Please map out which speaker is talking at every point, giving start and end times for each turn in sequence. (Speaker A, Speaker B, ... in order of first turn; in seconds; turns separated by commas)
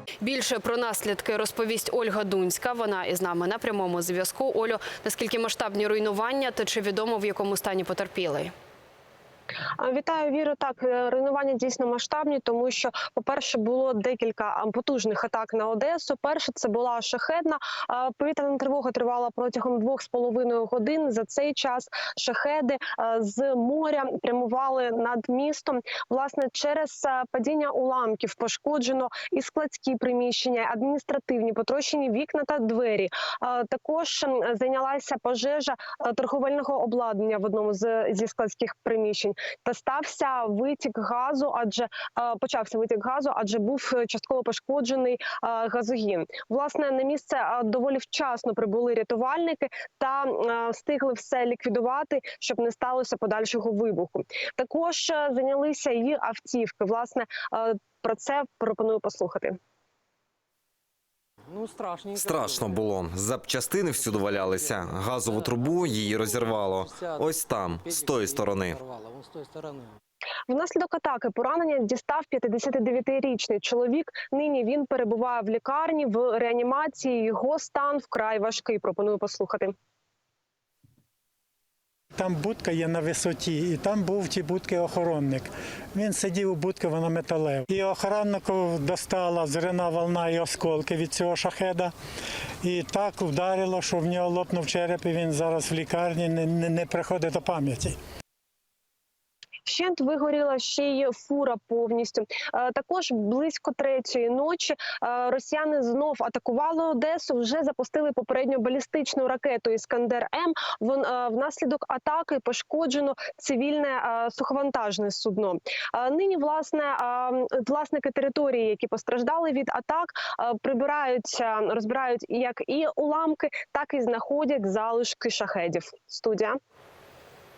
Speaker A: 0.2-8.5, Speaker B: 9.8-59.6, Speaker C: 61.5-63.0, Speaker D: 62.1-68.8, Speaker C: 63.9-69.9, Speaker B: 70.5-79.7, Speaker E: 82.2-91.9, Speaker E: 92.6-98.0, Speaker B: 99.6-126.6